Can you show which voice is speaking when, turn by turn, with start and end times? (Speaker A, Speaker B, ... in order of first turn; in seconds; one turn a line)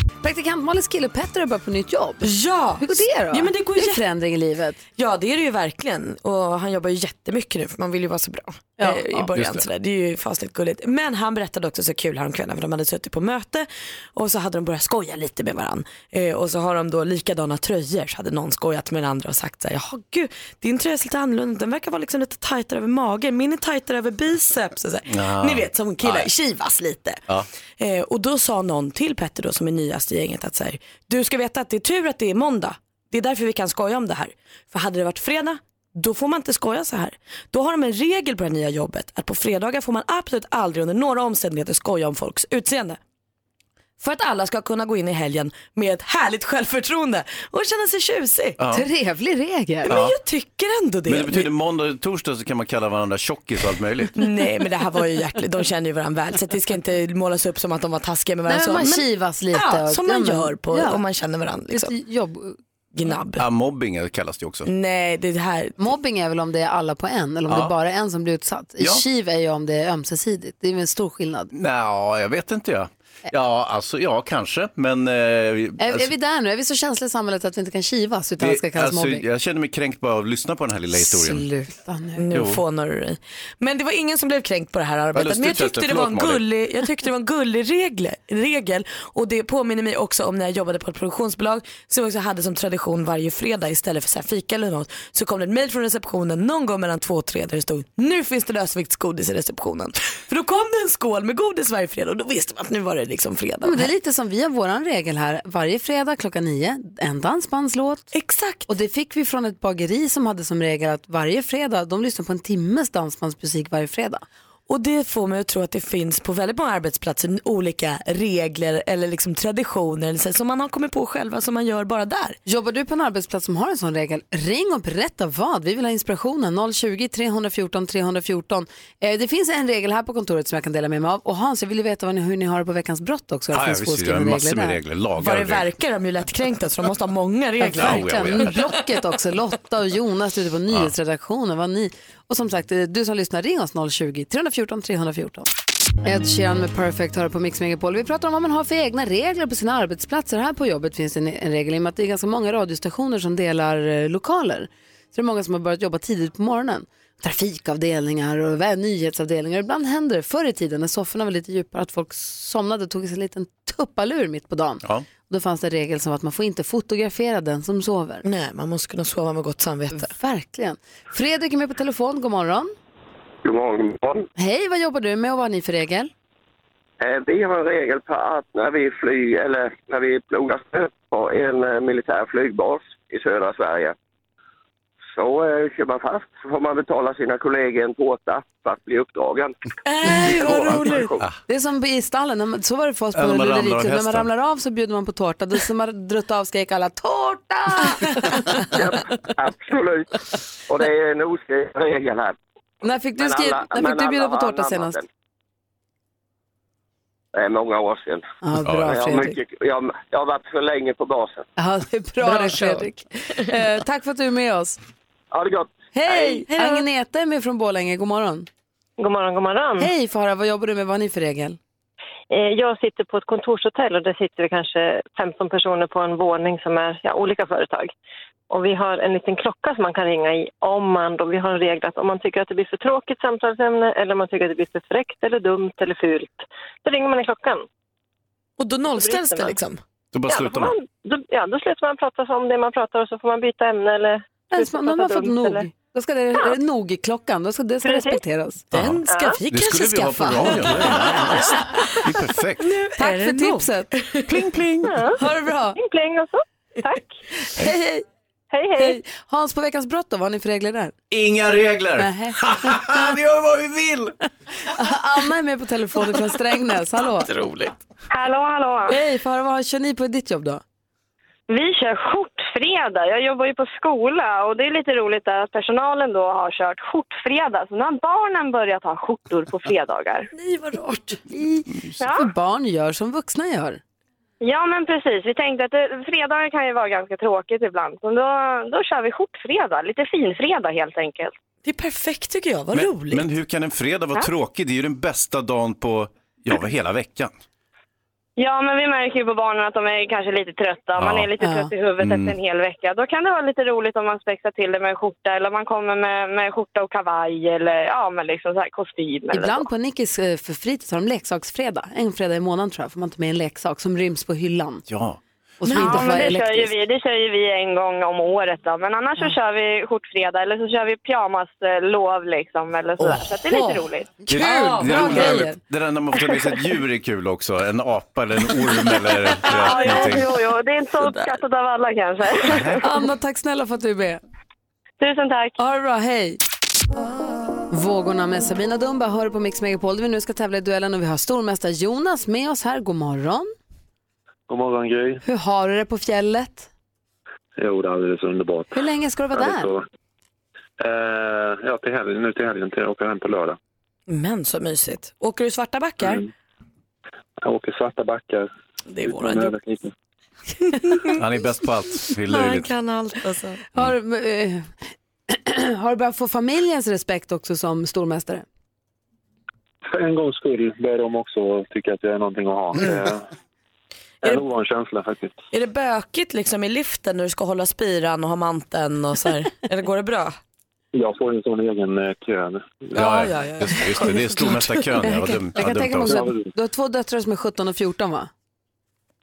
Speaker A: 0.2-2.3
Speaker B: 2.2-4.0
Speaker A: 2.8-4.8
Speaker B: 5.0-27.2
Speaker A: 8.8-9.1
Speaker C: 9.3-9.7
Speaker C: 25.1-26.3
Speaker B: 27.8-43.0
Speaker B: 44.0-48.6
Speaker C: 48.6-48.9
Speaker A: 48.7-50.0
Speaker B: 49.9-51.5
Speaker C: 49.9-50.1
Speaker C: 51.1-54.2
Speaker B: 54.2-61.9
Speaker A: 58.5-61.0
Speaker A: 61.7-62.6
Speaker B: 62.9-63.5
Speaker C: 63.4-64.7
Speaker B: 64.7-65.8
Speaker A: 65.8-71.5
Speaker C: 67.5-67.7
Speaker C: 68.8-69.0
Speaker C: 71.5-76.1
Speaker A: 75.8-79.2
Speaker C: 78.4-81.4
Speaker A: 80.9-82.2
Speaker B: 82.2-103.9
Speaker C: 82.3-82.6
Speaker C: 85.1-86.4
Speaker A: 103.6-108.1
Speaker B: 108.1-108.7
Speaker A: 108.7-114.2
Speaker B: 114.7-122.4
Speaker A: 122.5-134.8
Speaker C: 133.5-135.7
Speaker B: 135.2-138.7
Speaker A: 137.6-145.5
Speaker C: 137.7-138.7
Speaker A: 146.0-168.2
Speaker B: 168.2-170.1
Speaker A: 169.9-172.7
Speaker D: 173.4-174.3
Speaker A: 174.4-176.1
Speaker D: 177.0-183.9
Speaker D: 185.2-189.6
Speaker B: 189.8-191.1
Speaker D: 190.3-191.2
Speaker A: 191.5-198.7
Speaker C: 193.1-194.3
Speaker D: 198.7-200.2
Speaker D: 200.7-202.4
Speaker A: 202.8-205.0
Speaker D: 203.2-205.1
Speaker D: 207.3-208.2
Speaker A: 208.4-209.4
Speaker D: 208.8-211.5
Speaker A: 211.6-214.8
Speaker B: 212.2-212.8
Speaker D: 215.3-216.4
Speaker A: 215.9-218.5
Speaker B: 216.4-216.8
Speaker E: 219.0-219.9
Speaker A: 219.8-221.6
Speaker E: 222.3-227.9
Speaker E: 228.5-237.7
Speaker B: 238.6-239.8
Speaker E: 238.9-239.6
Speaker C: 240.1-240.8
Speaker E: 240.3-245.7
Speaker A: 244.5-248.6
Speaker B: 248.7-252.1
Speaker C: 248.7-252.7
Speaker E: 249.1-249.4
Speaker B: 252.6-254.5
Speaker A: 253.0-253.9
Speaker C: 254.3-254.9
Speaker E: 254.9-255.2
Speaker A: 255.2-255.8
Speaker E: 255.8-257.1
Speaker A: 257.4-258.1
Speaker A: 258.8-260.9
Speaker C: 261.1-264.1
Speaker A: 262.0-263.1
Speaker A: 264.7-267.3
Speaker B: 267.3-267.7
Speaker F: 268.1-269.0
Speaker A: 268.9-270.6
Speaker F: 271.5-280.3
Speaker B: 280.3-281.2
Speaker A: 281.3-283.8
Speaker F: 282.0-282.3
Speaker F: 284.4-291.3
Speaker B: 291.6-293.3
Speaker C: 292.7-297.3
Speaker F: 298.4-309.7
Speaker C: 301.0-301.3
Speaker A: 301.4-301.7
Speaker C: 302.0-302.4
Speaker A: 309.3-314.8
Speaker C: 314.9-315.2
Speaker A: 315.6-316.7
Speaker B: 315.6-316.3
Speaker F: 315.7-324.2
Speaker B: 323.0-325.4
Speaker C: 324.3-330.4
Speaker A: 324.3-325.6
Speaker F: 329.5-332.8
Speaker C: 332.4-332.8
Speaker A: 332.8-334.2
Speaker F: 335.0-335.5
Speaker A: 335.6-336.4
Speaker A: 337.7-343.5
Speaker G: 344.5-345.2
Speaker A: 345.2-346.7
Speaker G: 347.6-349.9
Speaker A: 348.7-349.7
Speaker G: 350.8-353.6
Speaker B: 354.1-356.2
Speaker G: 356.0-356.3
Speaker G: 357.4-358.5
Speaker B: 358.9-359.6
Speaker G: 359.1-359.9
Speaker B: 360.6-361.2
Speaker C: 361.1-362.7
Speaker B: 362.3-363.6
Speaker A: 363.7-364.7
Speaker A: 365.3-368.4
Speaker G: 369.9-373.3
Speaker G: 374.2-375.4
Speaker B: 375.5-380.4
Speaker G: 380.9-382.9
Speaker B: 382.9-384.9
Speaker C: 382.9-386.3
Speaker A: 385.0-388.3
Speaker G: 386.1-386.5